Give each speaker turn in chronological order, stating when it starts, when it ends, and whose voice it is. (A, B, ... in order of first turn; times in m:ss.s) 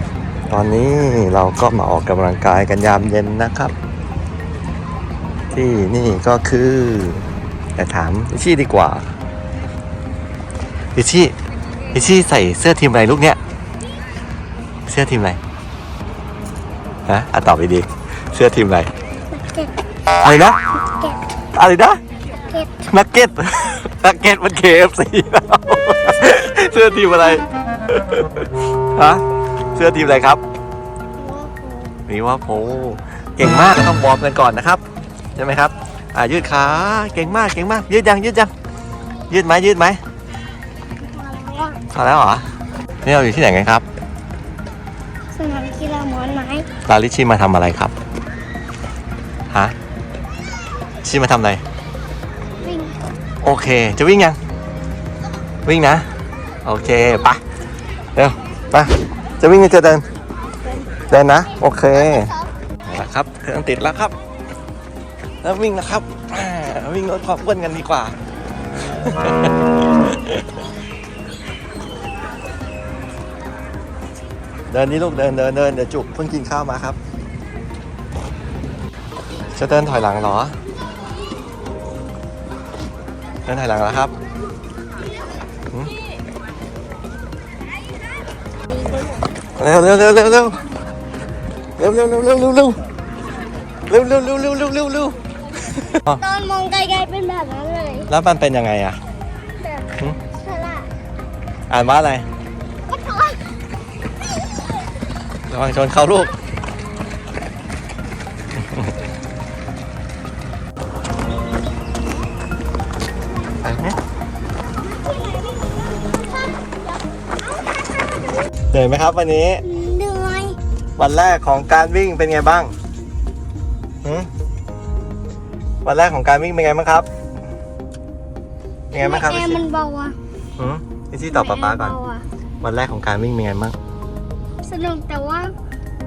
0:00.5-0:03.7 A
0:05.5-0:07.2 A
0:07.8-0:09.1 A
0:10.9-0:11.3 A
0:11.9-0:13.4 A
0:14.9-0:15.4 A
0:17.1-0:18.9 A
0:19.3-0:19.7 B
0:20.1-0:20.6 A
0:21.5-0:22.0 A
0:22.8-0:29.2 A
0:29.7-0:30.4 A
0:31.2-0:31.9 B
0:32.1-0:34.8 A
0:35.3-0:38.5 A
0:39.3-0:40.0 A
0:41.0-0:41.8 B
0:41.9-0:42.4 A
0:43.0-0:43.8 A
0:45.3-0:46.7 B
0:46.8-0:47.9 A
0:51.0-0:51.6 A
0:52.6-0:53.0 B
0:53.4-0:54.4 A
0:55.6-0:56.1 A
0:56.6-0:57.4 A
0:58.1-1:00.0 A
1:01.1-1:02.3 A
1:02.8-1:04.1 A
1:05.4-1:08.1 A
1:08.8-1:10.4 A
1:14.7-1:17.0 A
1:19.6-1:20.5 A
1:23.4-1:24.1 A
1:29.6-1:30.6 A
1:31.8-1:32.8 A
1:33.9-1:35.2 A
1:35.9-1:36.2 A
1:36.2-1:38.1 B
1:38.1-1:39.0 A
1:39.6-1:40.9 B
1:41.7-1:42.2 A
1:42.9-1:43.4 B
1:45.5-1:46.3 A
1:48.5-1:48.9 A
1:53.6-1:54.0 A
1:58.7-1:59.6 A
1:59.6-2:00.6 B
2:01.0-2:02.7 A
2:05.8-2:07.1 A
2:08.9-2:09.6 A
2:09.0-2:10.2 B
2:10.6-2:12.0 A
2:11.3-2:12.2 B
2:12.6-2:13.8 A
2:14.6-2:15.5 B